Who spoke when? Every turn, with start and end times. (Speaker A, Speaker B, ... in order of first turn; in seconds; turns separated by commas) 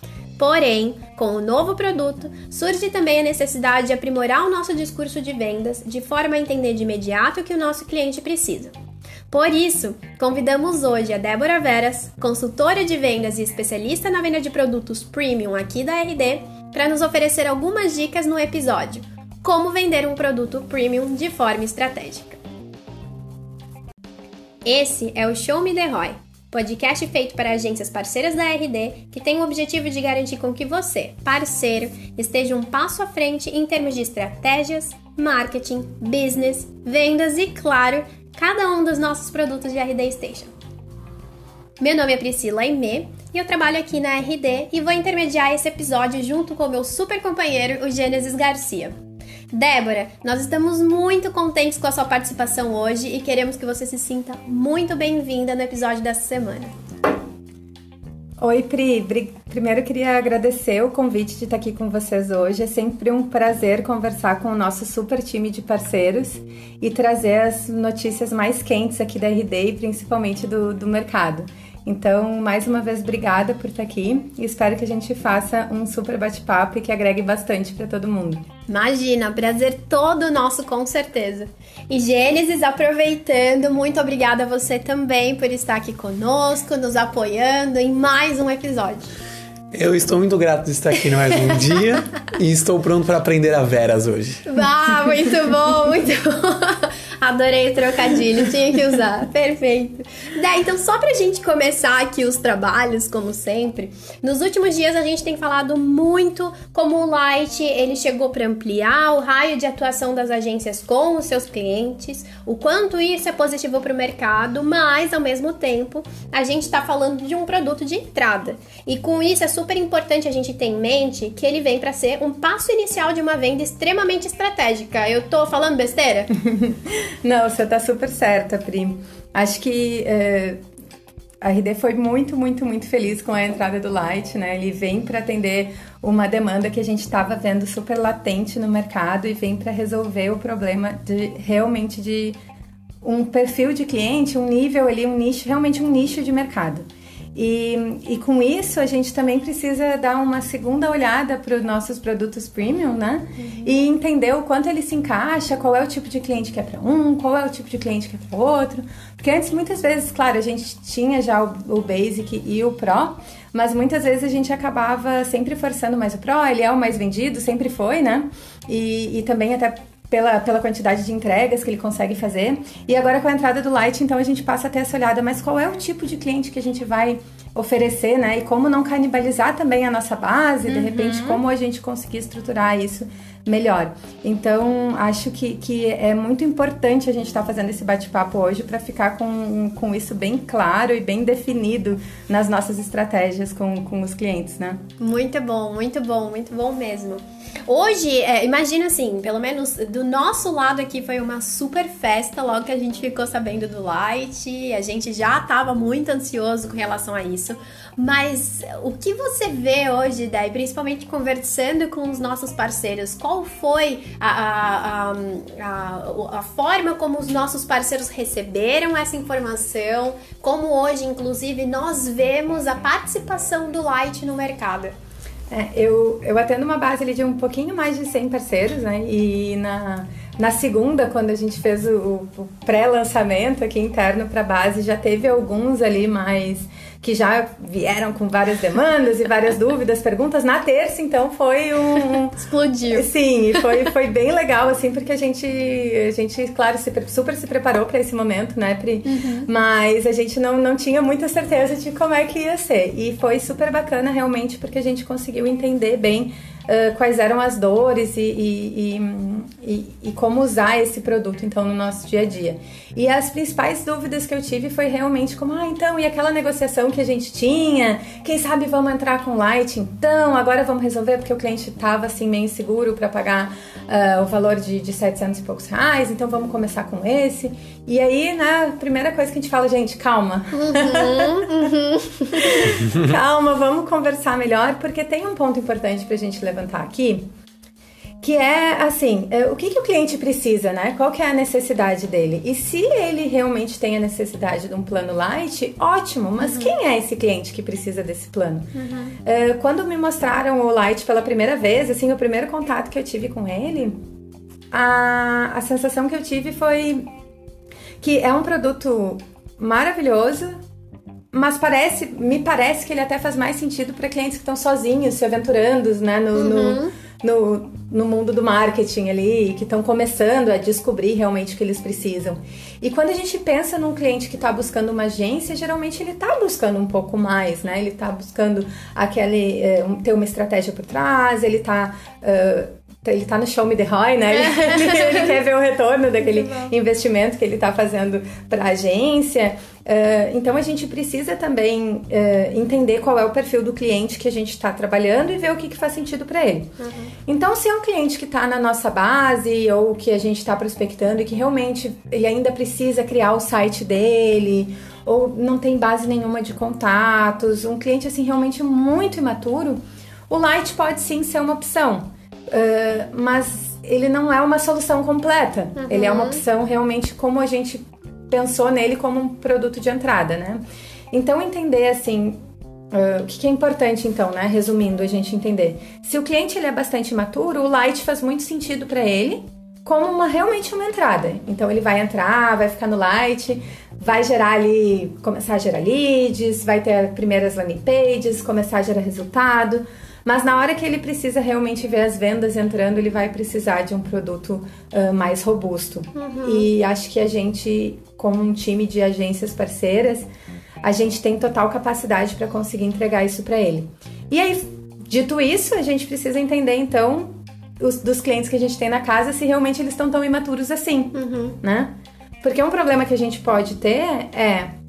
Speaker A: 0.4-8.7, Speaker A: 9.3-22.4, Speaker A: 24.6-40.5, Speaker A: 41.8-49.0, Speaker A: 49.5-56.7, Speaker B: 58.4-78.5, Speaker A: 78.7-89.1, Speaker C: 89.7-94.5, Speaker A: 94.5-126.3, Speaker B: 126.4-130.6, Speaker B: 131.4-142.4, Speaker B: 143.0-194.8, Speaker A: 153.4-153.8, Speaker A: 180.7-181.4, Speaker A: 195.0-224.9, Speaker B: 225.5-281.7, Speaker A: 242.0-243.6, Speaker A: 249.1-249.5, Speaker A: 280.5-282.7, Speaker B: 282.3-287.2, Speaker B: 288.2-298.7, Speaker A: 296.4-296.8, Speaker A: 298.8-299.2, Speaker B: 299.2-304.0, Speaker B: 304.7-307.1, Speaker B: 308.0-310.6, Speaker B: 311.3-346.8, Speaker A: 316.4-316.9, Speaker A: 334.3-335.3, Speaker A: 336.2-336.7, Speaker A: 346.8-347.1, Speaker B: 347.3-372.4, Speaker A: 365.8-366.4, Speaker B: 372.9-400.3, Speaker A: 396.1-396.7, Speaker B: 400.8-414.7, Speaker A: 411.1-411.6